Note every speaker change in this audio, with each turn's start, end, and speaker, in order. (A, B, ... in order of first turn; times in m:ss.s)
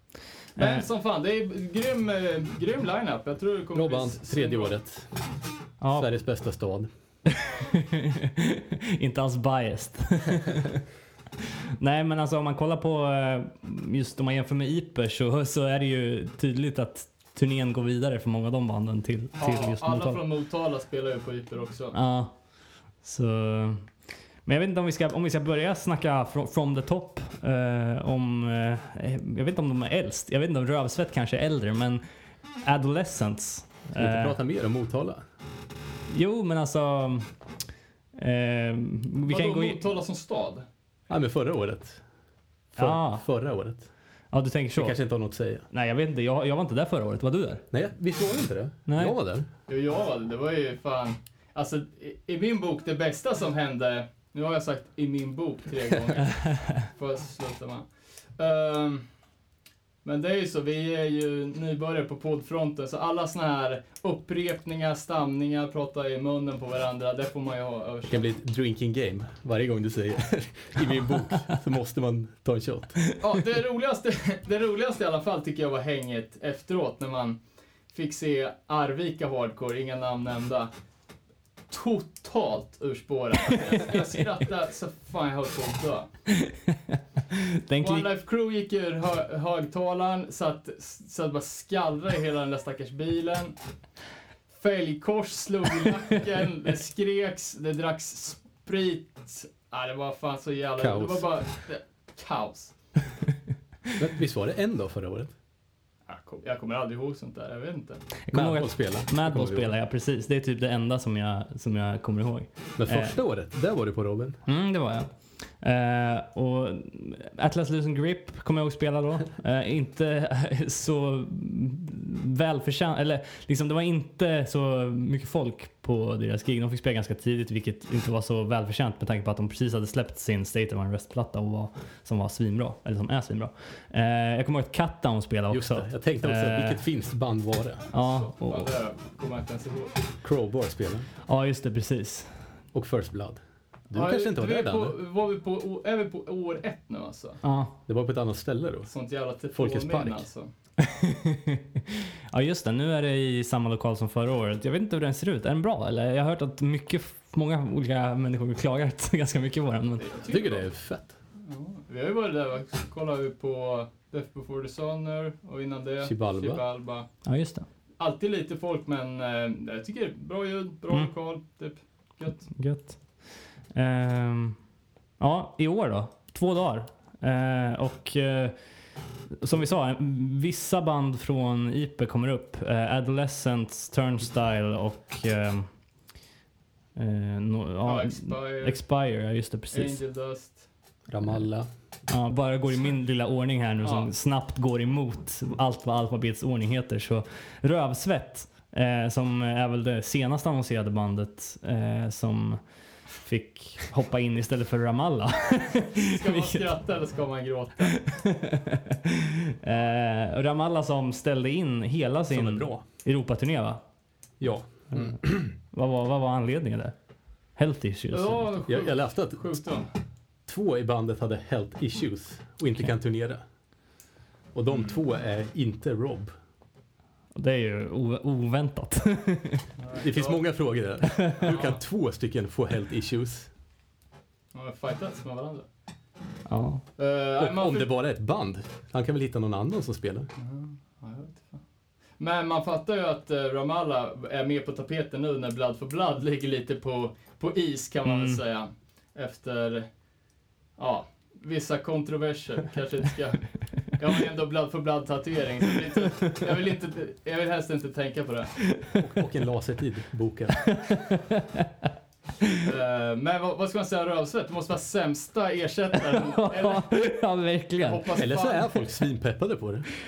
0:00.6-0:00.8 A
0:00.6-0:04.7 B
0:03.7-0:05.1 C
0:05.8-0:06.1 A
0:05.9-0:06.9 C
0:07.4-0:10.8 A
0:11.8-0:20.2 A
0:19.4-0:22.0 B
0:21.9-0:22.3 A
0:23.0-0:23.9 A
0:24.4-0:32.0 A
0:32.6-0:34.4 A
0:33.9-0:35.2 C
0:36.1-0:37.3 A
0:38.2-0:39.8 A
0:39.3-0:40.6 B
0:41.1-0:42.0 C
0:42.7-0:43.9 C
0:42.8-0:43.2 A
0:44.3-0:45.0 A
0:44.8-0:45.6 C
0:45.7-0:47.6 A
0:47.7-0:49.5 C
0:48.9-0:49.1 A
0:49.7-0:59.0 B
1:00.0-1:08.3 B
1:08.1-1:13.0 C
1:13.2-1:17.4 B
1:17.9-1:20.7 B
1:21.7-1:26.1 B
1:26.3-1:28.1 A
1:27.8-1:33.5 B
1:34.5-1:42.7 B
1:40.8-1:41.3 C
1:44.0-1:45.3 C
1:46.1-1:48.0 B
1:48.3-1:53.2 A
1:48.3-1:49.7 C
1:52.8-1:54.4 C
1:54.4-1:55.1 A
1:55.6-2:16.8 A
2:15.5-2:17.9 C
2:17.9-2:20.0 B
2:17.9-2:18.7 A
2:20.2-2:21.1 C
2:21.2-2:22.3 A
2:22.7-2:24.9 C
2:23.9-2:27.4 B
2:27.4-2:27.7 A
2:27.9-2:28.9 C
2:28.9-2:30.5 B
2:29.5-2:30.2 C
2:30.8-2:40.1 A
2:40.0-2:40.7 B
2:40.3-2:41.1 C
2:41.4-2:47.1 B
2:46.0-2:46.6 C
2:47.2-2:47.6 A
2:48.0-2:52.4 B
2:52.5-2:53.2 A
2:53.7-2:54.6 A
2:55.2-2:58.5 A
2:59.4-3:05.7 A
3:07.0-3:10.0 A
3:07.8-3:08.8 B
3:09.7-3:10.6 B
3:11.1-3:11.7 C
3:12.1-3:22.6 A
3:13.8-3:14.1 B
3:23.2-3:26.7 A
3:26.0-3:28.1 B
3:28.0-3:33.8 A
3:32.3-3:32.8 C
3:34.4-3:35.5 C
3:34.9-3:36.9 A
3:37.6-3:38.6 A
3:38.1-3:39.9 B
3:38.7-3:39.6 C
3:40.5-3:43.4 C
3:44.5-3:46.3 C
3:47.3-3:49.6 A
3:49.8-3:50.4 B
3:50.0-3:53.5 C
3:51.1-3:51.4 A
3:51.4-3:51.8 B
3:54.5-3:55.7 B
3:56.5-3:56.8 A
3:57.0-3:57.9 B
3:57.4-4:00.3 C
4:00.4-4:01.6 B
4:02.2-4:09.9 B
4:08.0-4:08.4 A
4:10.8-4:18.6 B
4:19.0-4:20.6 C
4:20.7-4:21.7 A
4:22.6-4:27.1 B
4:26.1-4:28.0 A
4:27.8-4:28.7 B
4:28.2-4:29.9 C